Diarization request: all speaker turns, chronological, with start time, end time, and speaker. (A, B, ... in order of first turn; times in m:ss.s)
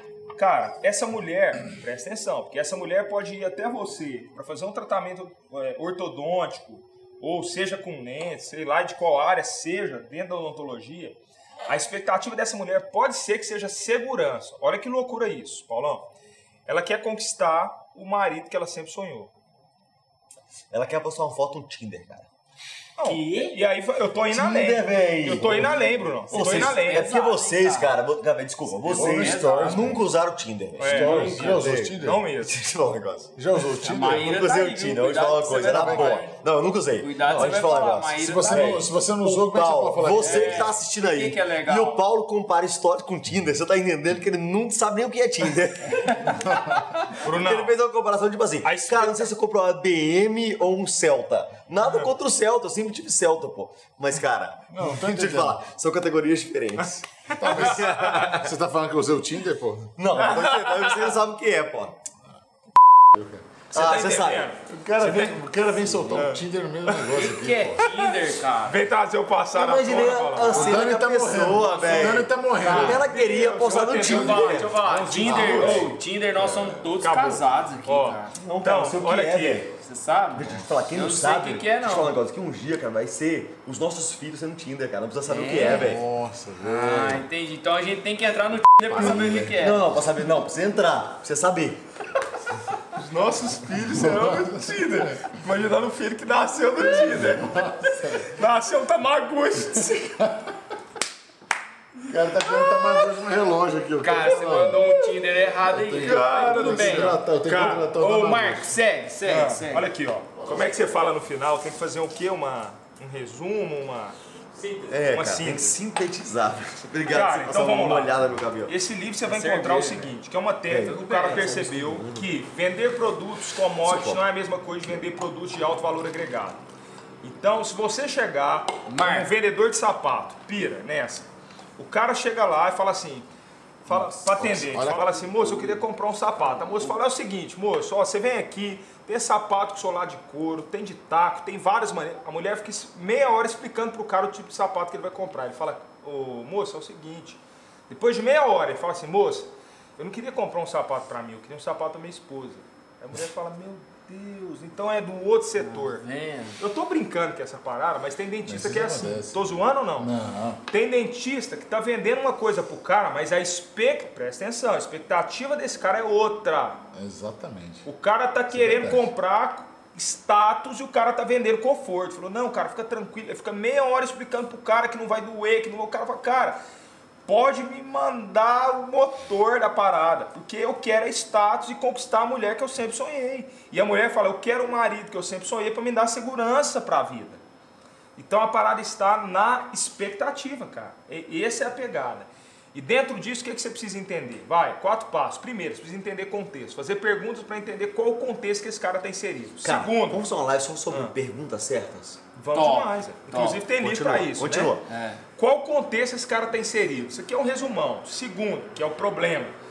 0:00.4-0:16.1 A
0:16.6-0:19.3 A
0:20.7-0:22.3 B
0:23.0-0:27.1 A
0:23.0-0:23.6 C
0:24.3-0:58.5 B
0:26.3-0:28.0 C
0:28.8-0:29.8 C
0:28.8-0:30.0 D
0:30.8-0:32.6 A
0:30.8-0:32.2 D
0:31.0-0:31.5 C
0:33.4-0:34.4 D
0:33.8-0:36.4 C
0:35.6-0:36.2 D
0:37.0-0:38.9 C
0:37.3-0:40.7 D
0:40.1-0:42.0 C
0:47.1-0:47.7 A
0:48.6-0:49.3 A
0:54.7-0:55.6 D
0:56.8-0:57.9 A
0:57.4-1:00.1 D
1:00.0-1:02.0 B
1:00.2-1:01.1 A
1:03.1-1:03.6 D
1:03.7-1:05.4 A
1:03.7-1:05.4 B
1:04.8-1:07.9 D
1:06.1-1:07.3 A
1:07.1-1:08.8 C
1:07.8-1:08.1 A
1:08.6-1:12.3 A
1:09.5-1:14.7 B
1:10.4-1:13.1 D
1:12.6-1:13.0 C
1:12.8-1:15.9 A
1:13.9-1:18.4 C
1:15.0-1:17.0 D
1:17.0-1:19.7 A
1:18.3-1:19.8 B
1:19.8-1:22.2 C
1:20.3-1:26.0 B
1:25.3-1:26.0 C
1:25.5-1:27.2 D
1:26.6-1:29.8 C
1:28.9-1:29.7 D
1:28.9-1:31.8 B
1:32.9-1:40.4 A
1:34.0-1:35.2 D
1:37.0-1:38.2 D
1:42.0-1:45.0 D
1:42.5-1:43.0 A
1:44.0-1:49.9 C
1:45.6-1:48.8 D
1:46.0-1:47.9 A
1:49.2-1:54.2 A
1:50.4-1:50.9 D
1:54.5-1:55.0 C
1:54.9-1:58.7 B
1:55.1-1:55.8 A
1:57.0-1:58.2 A
1:58.7-2:06.6 A
1:59.3-2:00.2 C
2:00.7-2:02.3 B
2:00.8-2:01.6 C
2:03.8-2:04.2 B
2:07.2-2:13.3 A
2:08.9-2:09.3 C
2:13.8-2:36.0 A
2:13.9-2:14.9 C
2:14.3-2:15.7 D
2:35.6-2:36.6 C
2:36.6-2:40.1 A
2:38.4-2:40.6 D
2:40.7-2:46.8 A
2:46.9-2:47.8 D
2:47.8-2:56.6 A
2:48.5-2:49.1 D
2:57.2-3:07.4 A
3:08.2-3:20.2 A
3:19.6-3:22.2 B
3:20.9-3:21.2 A
3:22.3-3:24.8 A
3:22.5-3:23.6 C
3:23.7-3:24.9 B
3:24.9-3:25.2 C
3:25.4-3:29.5 A